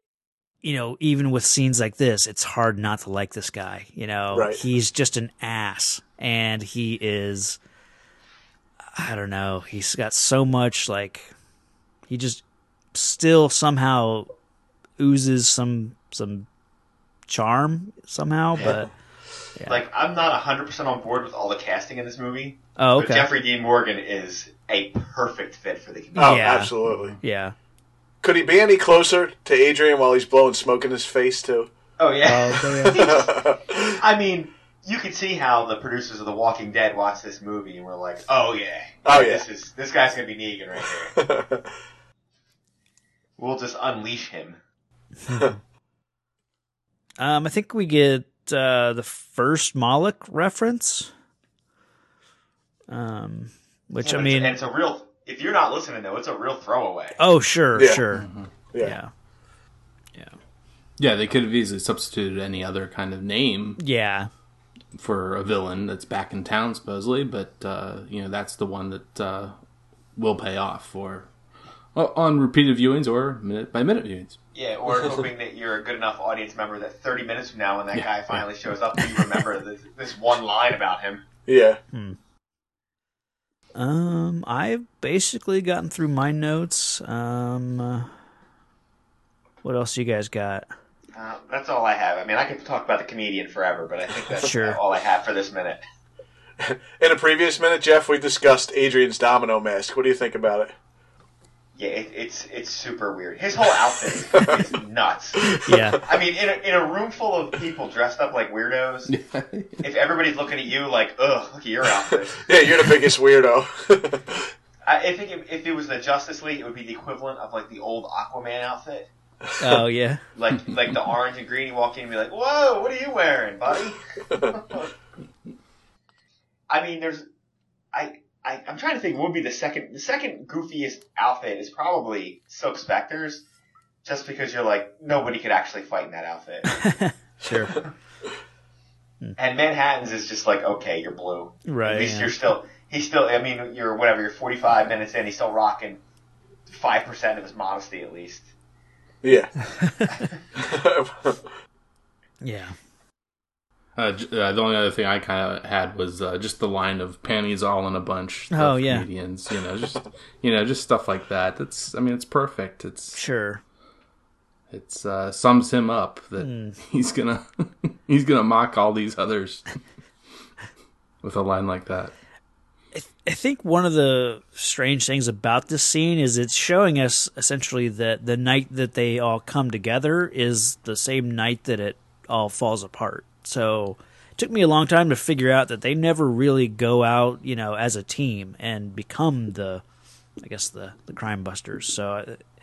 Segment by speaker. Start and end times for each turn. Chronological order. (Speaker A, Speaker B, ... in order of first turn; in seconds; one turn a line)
Speaker A: 0.6-7.6
Speaker B: 4.3-4.6
Speaker A: 9.0-11.3
Speaker A: 12.1-12.4
Speaker A: 12.9-14.3
Speaker A: 15.0-16.5
Speaker A: 17.3-18.9
Speaker B: 18.6-18.9
Speaker A: 19.6-19.8
Speaker C: 19.7-26.5
Speaker A: 22.8-23.3
Speaker B: 26.1-27.1
Speaker A: 26.2-27.5
Speaker D: 26.9-27.2
Speaker B: 28.2-31.7
Speaker C: 32.0-41.1
Speaker A: 32.2-33.1
Speaker B: 32.8-34.0
Speaker B: 39.0-39.5
Speaker B: 41.0-41.7
Speaker C: 43.4-44.6
Speaker A: 47.2-51.1
Speaker A: 52.9-54.5
Speaker C: 54.0-57.2
Speaker A: 57.2-59.1
Speaker B: 57.7-58.0
Speaker D: 58.1-58.5
Speaker B: 58.7-59.0
Speaker D: 61.0-63.8
Speaker A: 63.8-64.3
Speaker D: 64.9-69.5
Speaker D: 70.2-71.3
Speaker D: 71.9-74.4
Speaker C: 74.5-81.2
Speaker B: 81.5-81.8
Speaker A: 81.9-82.2
Speaker A: 83.8-88.1
Speaker A: 89.6-90.7
Speaker C: 91.1-95.8
Speaker A: 94.4-94.8
Speaker B: 96.6-100.7
Speaker C: 101.8-109.1
Speaker B: 105.4-105.8
Speaker A: 105.7-106.0
Speaker D: 109.1-109.8
Speaker C: 109.8-112.5
Speaker B: 112.4-114.5
Speaker C: 114.8-119.1
Speaker A: 119.6-120.2
Speaker C: 120.3-124.9
Speaker C: 126.7-127.2
Speaker C: 127.9-133.4
Speaker C: 134.0-136.8
Speaker A: 136.7-137.8
Speaker C: 139.4-146.0
Speaker A: 141.7-142.3
Speaker C: 146.7-148.5
Speaker B: 149.2-149.5
Speaker A: 149.8-150.1
Speaker B: 150.6-151.5
Speaker A: 152.4-152.8
Speaker D: 153.9-163.2
Speaker A: 158.5-159.1
Speaker A: 163.1-163.6
Speaker D: 164.7-169.7
Speaker A: 166.4-166.8
Speaker D: 171.2-172.1
Speaker A: 172.9-189.8
Speaker A: 190.4-192.4